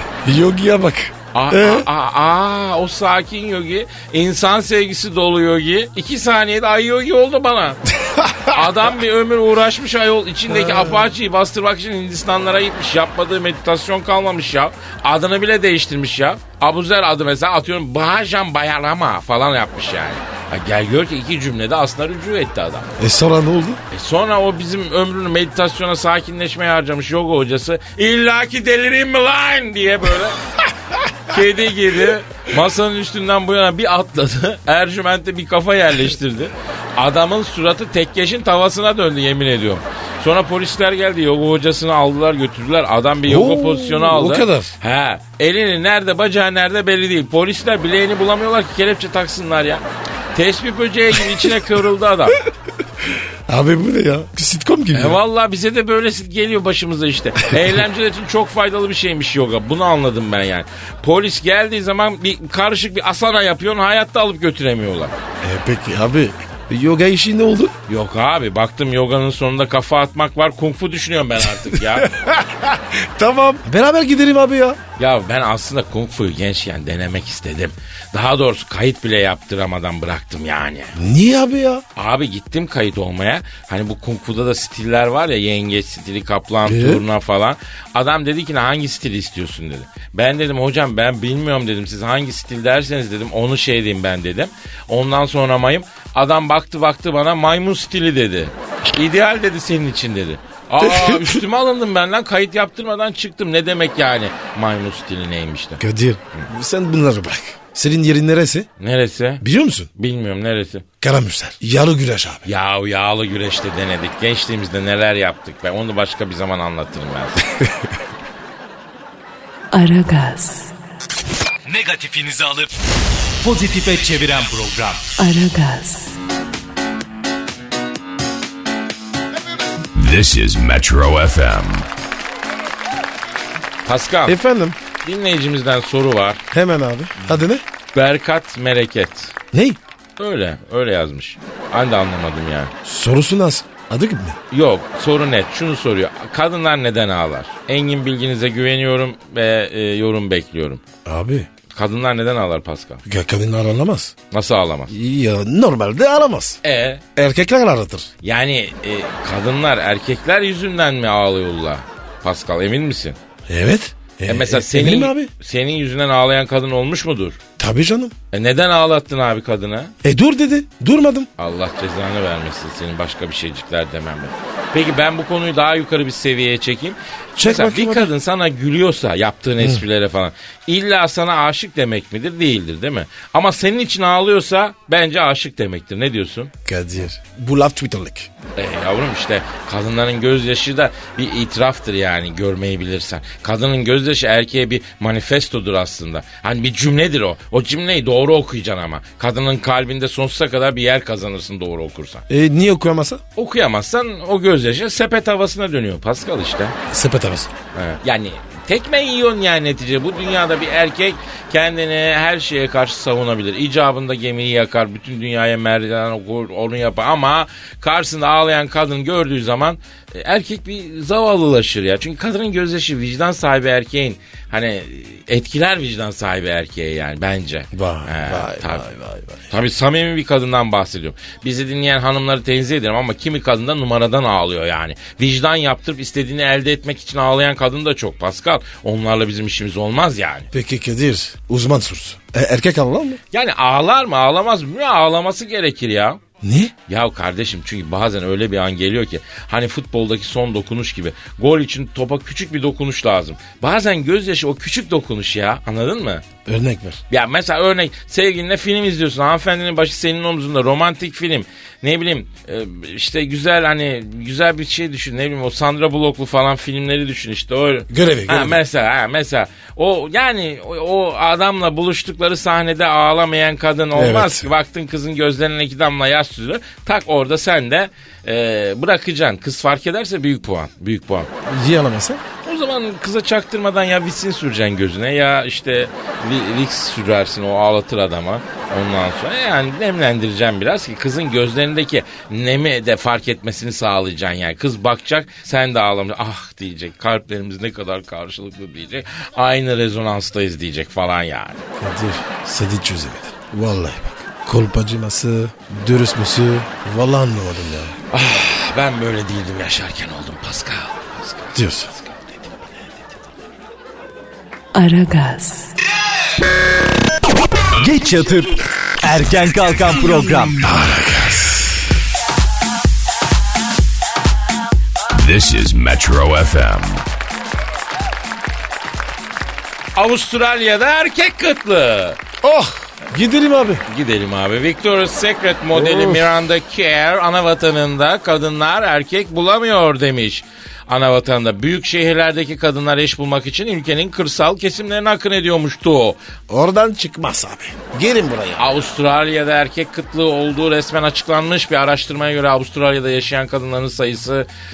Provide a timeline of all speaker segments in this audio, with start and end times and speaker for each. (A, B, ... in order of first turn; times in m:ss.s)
0:00.2-0:01.9 A
0:01.3-0:07.8 B
0:08.0-0:08.7 A
0:08.5-0:22.9 B
0:10.5-0:11.1 A
0:23.0-0:23.8 A
0:23.9-0:30.4 B
0:31.3-0:49.8 B
0:43.3-0:44.7 A
0:50.4-0:52.4 B
0:53.0-0:55.2 A
0:54.9-1:05.2 B
1:05.4-1:07.8 A
1:07.9-1:12.1 B
1:11.5-1:14.8 A
1:15.0-1:20.9 B
1:20.9-1:21.8 A
1:22.0-1:45.8 B
1:26.6-1:27.0 A
1:40.8-1:41.4 A
1:45.8-1:48.7 A
1:48.8-1:49.4 B
1:49.4-1:49.9 A
1:49.9-1:50.8 B
1:51.0-1:52.4 A
1:52.4-1:57.4 B
1:57.4-1:57.9 A
1:59.7-2:00.7 C
2:01.6-2:02.7 D
2:03.4-2:05.1 D
2:05.2-2:06.2 C
2:09.9-2:11.9 E
2:13.8-2:14.4 B
2:14.3-2:14.8 A
2:15.0-2:16.4 B
2:16.5-2:17.6 A
2:17.9-2:19.3 B
2:19.5-2:19.8 A
2:20.2-2:22.7 B
2:22.8-2:24.4 A
2:24.5-2:30.8 B
2:31.0-2:31.5 A
2:31.7-2:33.0 B
2:33.0-2:34.1 A
2:34.3-2:34.9 B
2:34.9-2:36.6 A
2:36.6-2:37.0 B
2:37.2-2:38.1 A
2:38.2-2:43.2 B
2:43.5-2:45.3 A
2:44.3-2:47.4 B
2:47.6-2:48.1 A
2:48.3-2:49.9 B
2:50.0-2:51.3 A
2:51.4-3:06.5 B
2:57.4-2:58.1 A
3:06.6-3:08.3 A
3:08.6-3:22.2 B
3:22.3-3:23.2 A
3:23.4-3:26.8 B
3:26.9-3:27.5 A
3:27.7-3:48.9 B
3:47.7-3:49.5 A
3:49.5-4:00.5 B
4:00.5-4:03.2 A
4:03.3-4:06.2 B
4:06.4-4:06.7 A
4:06.9-4:16.2 B
4:16.4-4:17.0 A
4:17.1-4:41.3 B
4:27.9-4:28.6 A
4:33.9-4:34.5 A
4:41.4-4:42.2 A
4:42.4-5:01.6 B
5:01.8-5:07.9 A
5:08.1-5:12.4 B
5:11.6-5:11.9 A
5:14.7-5:15.7 C
5:17.8-5:20.6 D
5:20.6-5:21.8 A
5:25.1-5:27.0 E
5:29.9-5:32.2 B
5:32.4-5:33.8 A
5:33.9-5:46.2 B
5:35.7-5:36.3 A
5:46.5-5:48.8 A
5:48.6-5:54.5 B